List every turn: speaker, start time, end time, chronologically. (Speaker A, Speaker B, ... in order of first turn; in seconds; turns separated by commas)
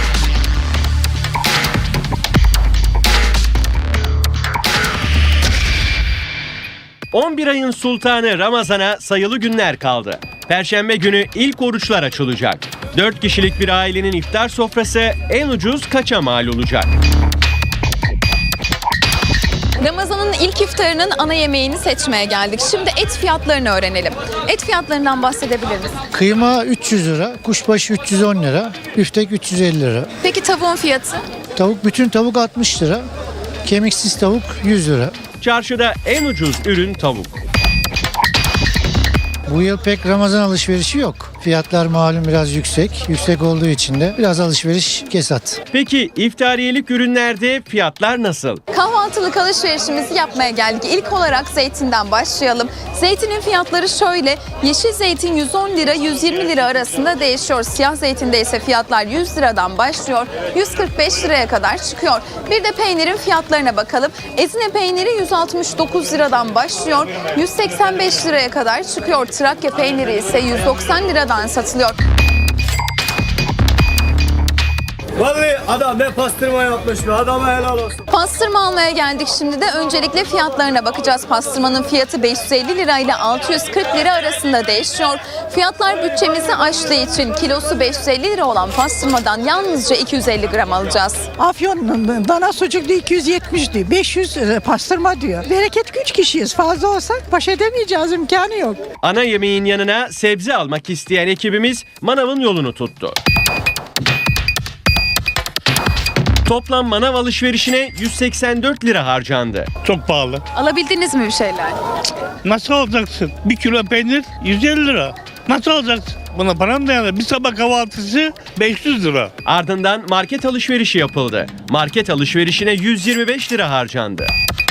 Speaker A: 7.1-16.9, Speaker B: 19.8-26.0, Speaker C: 26.1-30.1, Speaker B: 30.2-31.2, Speaker C: 31.6-33.0, Speaker C: 33.6-35.1, Speaker A: 35.4-37.4, Speaker C: 39.5-45.6, Speaker A: 45.7-48.6, Speaker B: 48.7-72.0, Speaker D: 75.2-76.8, Speaker D: 77.6-77.9, Speaker B: 78.1-91.3, Speaker E: 91.4-98.8, Speaker A: 99.0-103.2, Speaker A: 106.5-109.7, Speaker F: 109.8-110.4, Speaker B: 110.5-111.8, Speaker F: 112.4-119.3, Speaker A: 119.4-124.3